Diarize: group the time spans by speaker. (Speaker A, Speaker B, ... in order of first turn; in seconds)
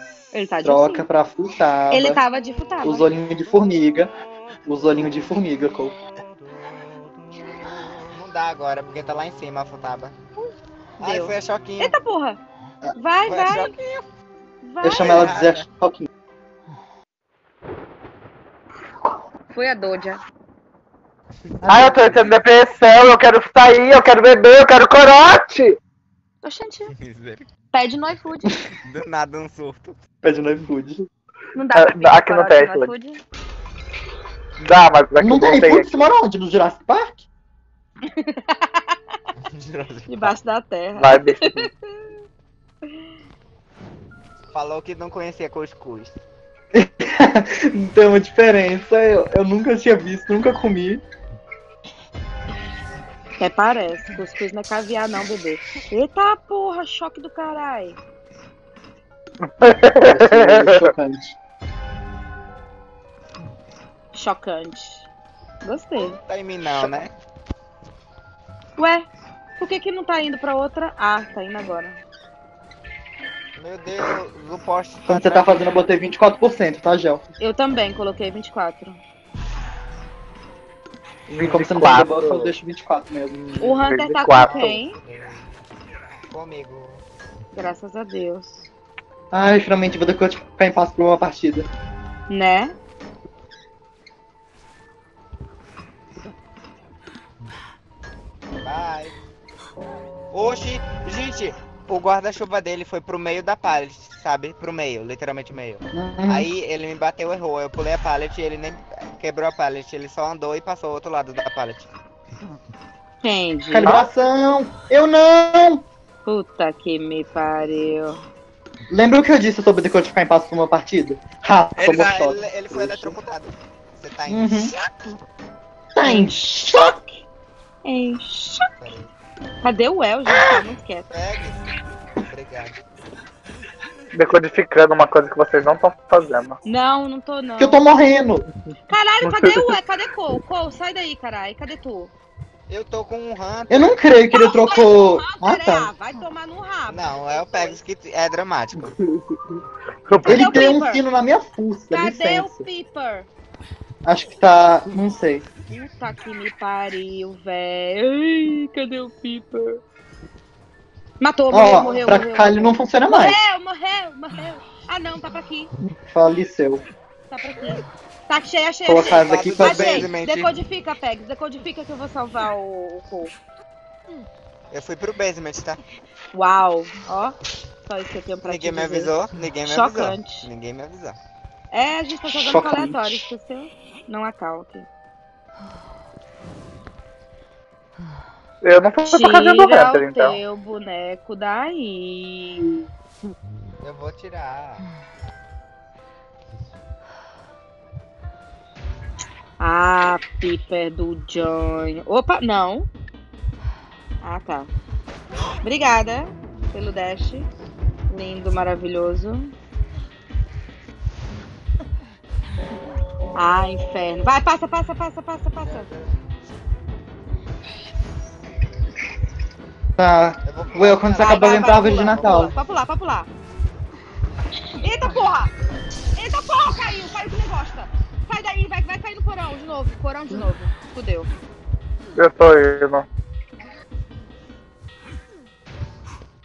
Speaker A: 0.3-1.1, 1.9-3.1, 11.0-12.4, 13.0-13.8, 14.6-15.3, 19.5-20.2, 26.4-26.9, 27.7-28.6, 31.5-33.2, 38.2-38.9, 40.1-42.1, 53.4-58.0, 64.1-65.1, 65.6-66.2, 68.8-69.1, 69.6-72.0, 77.4-79.0, 83.6-85.0, 87.5-88.6, 92.3-92.8, 113.2-114.0, 116.2-118.2, 126.0-126.3, 127.8-128.7, 129.6-131.1, 136.7-137.9, 138.9-142.1, 144.3-147.8, 150.2-151.0, 151.9-153.3, 155.7-159.8, 161.2-165.7, 167.3-173.3, 176.3-179.1, 179.7-180.5, 181.7-184.9, 189.1-192.9, 199.6-202.9, 204.2-204.7, 205.6-207.5, 208.1-209.5, 213.3-215.9, 221.2-223.3, 224.8-225.5, 226.2-231.3
Speaker B: 0.6-2.2, 2.8-4.1, 4.7-6.0, 14.8-16.1, 21.6-22.1, 30.2-31.1, 35.2-37.2, 46.7-51.0, 60.1-61.4, 75.1-77.2, 81.4-83.5, 89.3-91.7, 105.9-106.5, 113.7-115.8, 118.9-123.2, 124.3-124.7, 126.0-127.1, 137.6-138.5, 143.7-145.9, 150.2-152.7, 154.1-155.5, 161.5-163.4, 166.0-166.8, 168.9-170.1, 182.5-183.2, 220.0-222.5
Speaker C: 8.1-10.2, 11.0-11.9, 13.2-14.0, 14.9-15.7, 26.9-27.5, 28.8-30.0, 39.5-40.4, 44.5-46.1, 66.0-67.1, 73.6-75.6, 84.4-85.5, 86.3-87.0, 98.6-99.2, 100.3-111.9, 121.8-124.8, 128.8-129.1, 131.1-131.7, 132.3-132.8, 142.7-143.9, 146.9-149.0, 169.1-170.6, 174.7-175.8, 178.4-181.2, 193.8-194.8, 220.4-222.7
Speaker D: 21.7-25.8, 31.7-32.9, 34.6-35.9, 41.0-41.7, 59.6-60.9, 81.3-82.5, 83.5-84.8, 134.1-136.6, 139.2-139.7, 148.9-149.6, 150.1-150.7, 188.6-190.4, 232.2-233.1